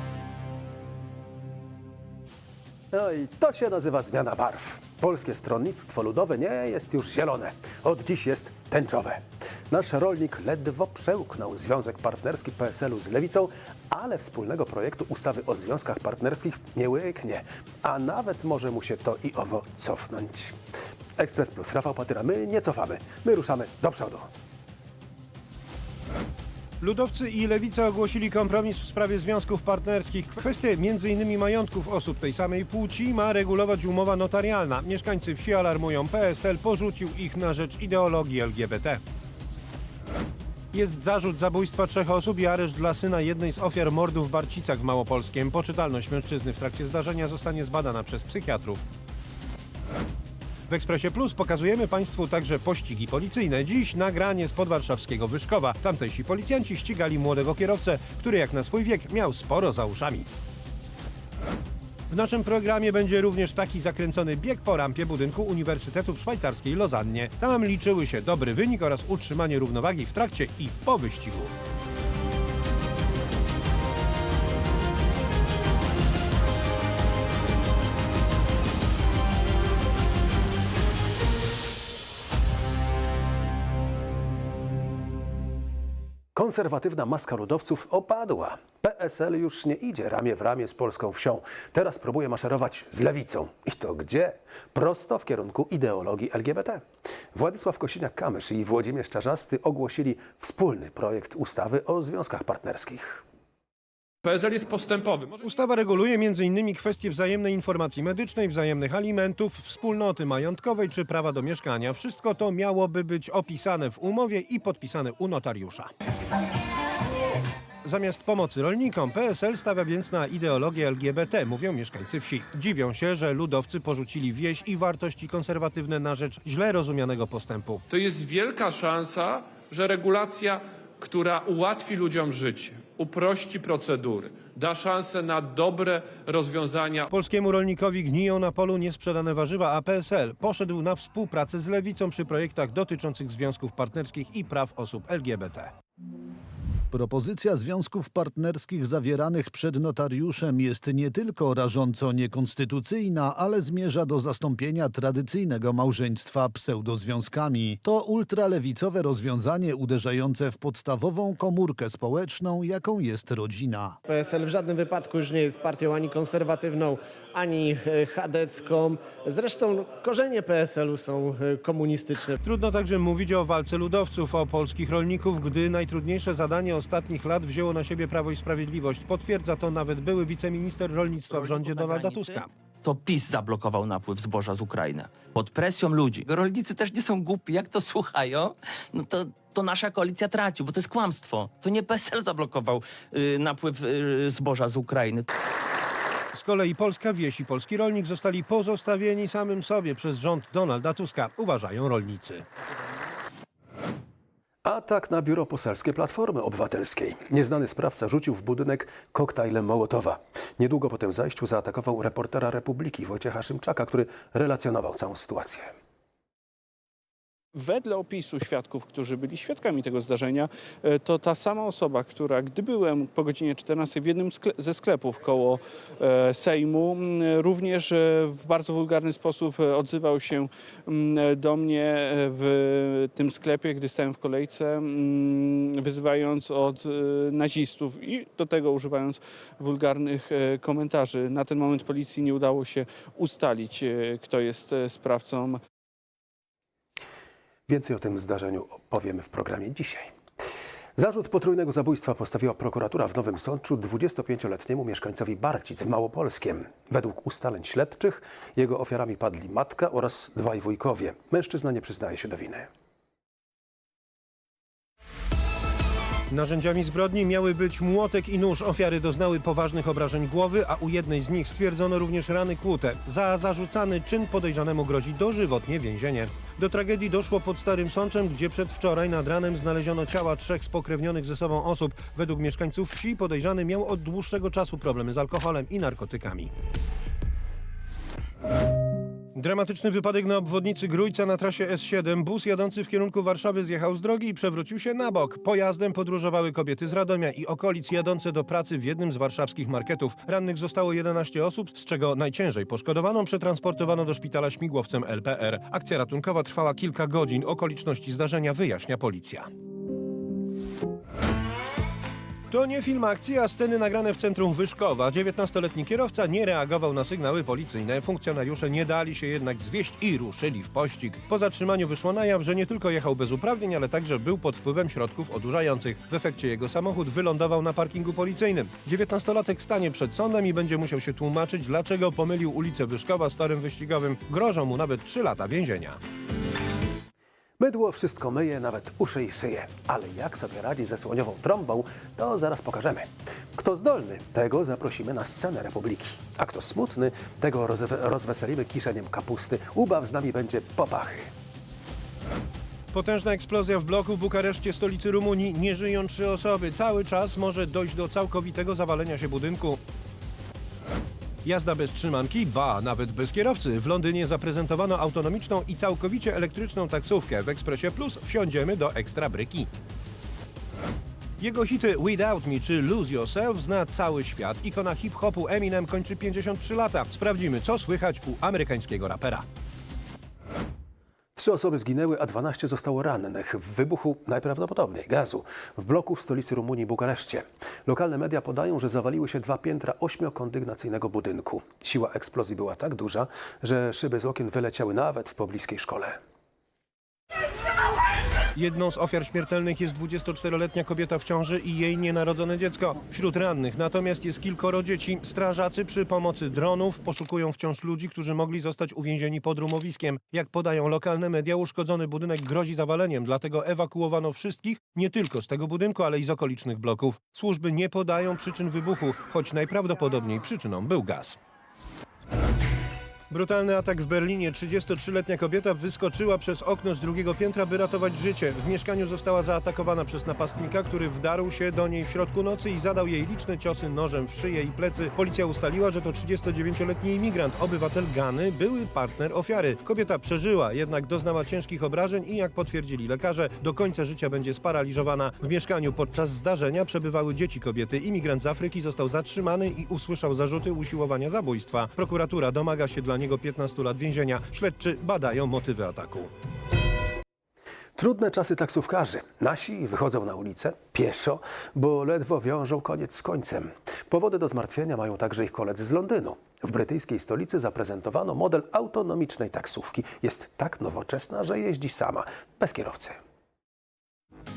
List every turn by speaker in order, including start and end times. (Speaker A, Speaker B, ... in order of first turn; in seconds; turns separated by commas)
Speaker A: 2.9-20.6, Speaker A: 21.2-24.3, Speaker B: 26.8-39.0, Speaker B: 40.7-48.8, Speaker B: 50.7-60.3, Speaker B: 62.1-71.5, Speaker A: 86.3-103.2, Speaker C: 104.2-105.4, Speaker B: 105.4-115.9, Speaker B: 117.8-127.8, Speaker C: 127.9-137.1, Speaker B: 137.1-145.7, Speaker D: 146.9-164.0, Speaker E: 164.1-172.4, Speaker B: 172.4-182.5, Speaker F: 181.8-195.3, Speaker B: 196.3-202.4, Speaker A: 204.6-215.7, Speaker G: 217.5-245.6, Speaker A: 247.7-250.1, Speaker A: 251.0-262.7, Speaker B: 266.3-286.5, Speaker B: 289.3-309.5, Speaker B: 312.5-336.0, Speaker A: 337.6-351.3, Speaker B: 352.9-359.8, Speaker B: 361.4-369.7, Speaker B: 371.4-379.4, Speaker A: 381.4-396.2, Speaker B: 398.5-421.4, Speaker B: 423.3-456.3, Speaker A: 458.0-473.2